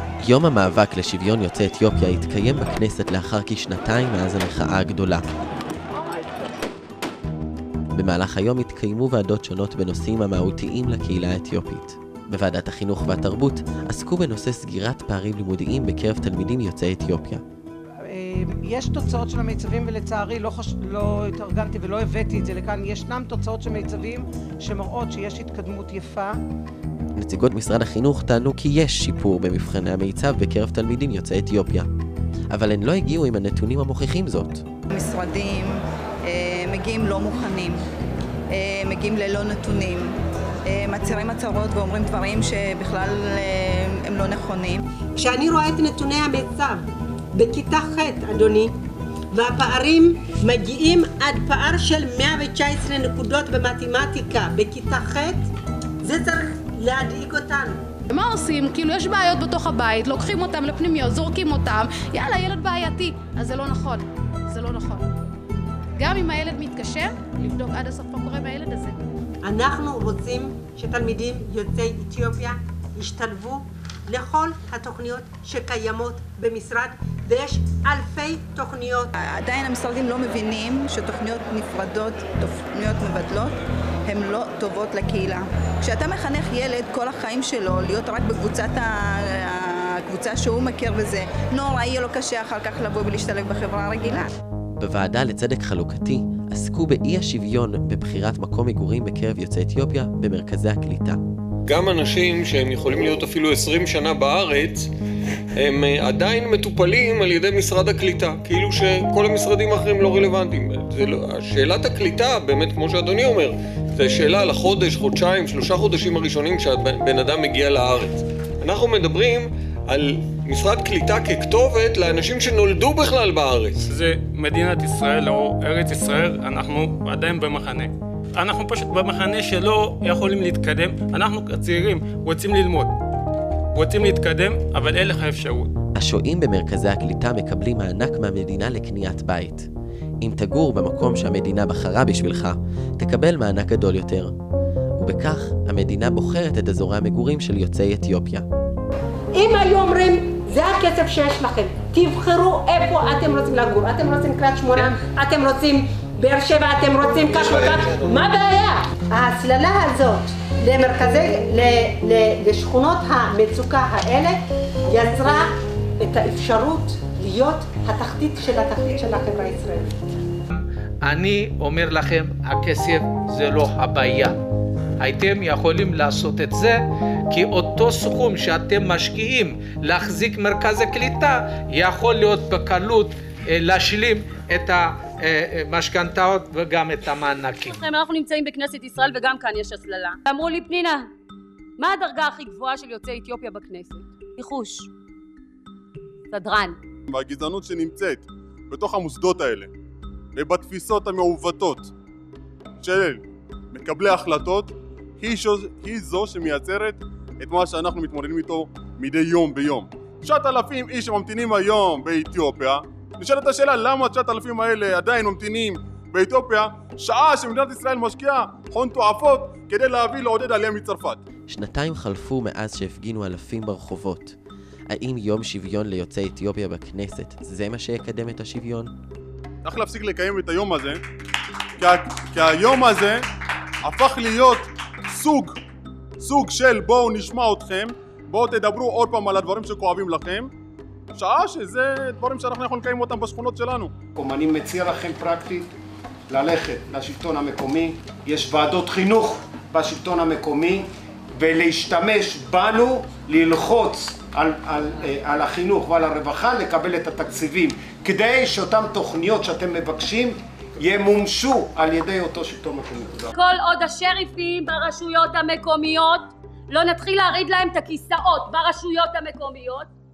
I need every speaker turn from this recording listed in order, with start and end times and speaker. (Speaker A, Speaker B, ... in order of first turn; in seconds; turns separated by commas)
Speaker A: 0.2-5.2, Speaker A: 7.9-17.4, Speaker B: 18.1-26.4, Speaker A: 27.1-31.9, Speaker A: 32.5-34.6, Speaker C: 34.9-35.7, Speaker C: 36.3-37.8, Speaker C: 38.5-40.1, Speaker C: 40.7-44.8, Speaker D: 45.1-46.8, Speaker D: 47.3-48.7, Speaker D: 49.3-55.5, Speaker D: 56.0-57.8, Speaker E: 58.1-65.1, Speaker E: 66.0-69.0, Speaker D: 69.4-79.1, Speaker C: 79.4-83.5, Speaker C: 84.1-94.3, Speaker A: 94.8-101.2, Speaker F: 101.7-104.9, Speaker F: 105.5-123.8, Speaker G: 123.8-132.9, Speaker G: 133.7-135.7, Speaker A: 135.9-139.7, Speaker A: 140.2-144.3, Speaker A: 145.0-148.4, Speaker D: 149.3-169.9, Speaker H: 171.0-174.4, Speaker H: 175.0-176.8, Speaker H: 177.3-187.8, Speaker I: 187.6-191.0, Speaker I: 191.8-194.9, Speaker I: 196.3-196.8, Speaker J: 197.1-199.7, Speaker J: 200.3-201.9, Speaker J: 202.8-203.2, Speaker J: 203.7-221.2, Speaker A: 221.5-224.3, Speaker A: 224.9-228.9, Speaker J: 229.6-231.0, Speaker J: 231.8-233.2, Speaker J: 233.8-235.6, Speaker J: 236.2-240.5, Speaker J: 241.1-243.9, Speaker K: 244.2-245.7, Speaker K: 246.3-263.3, Speaker I: 263.3-269.9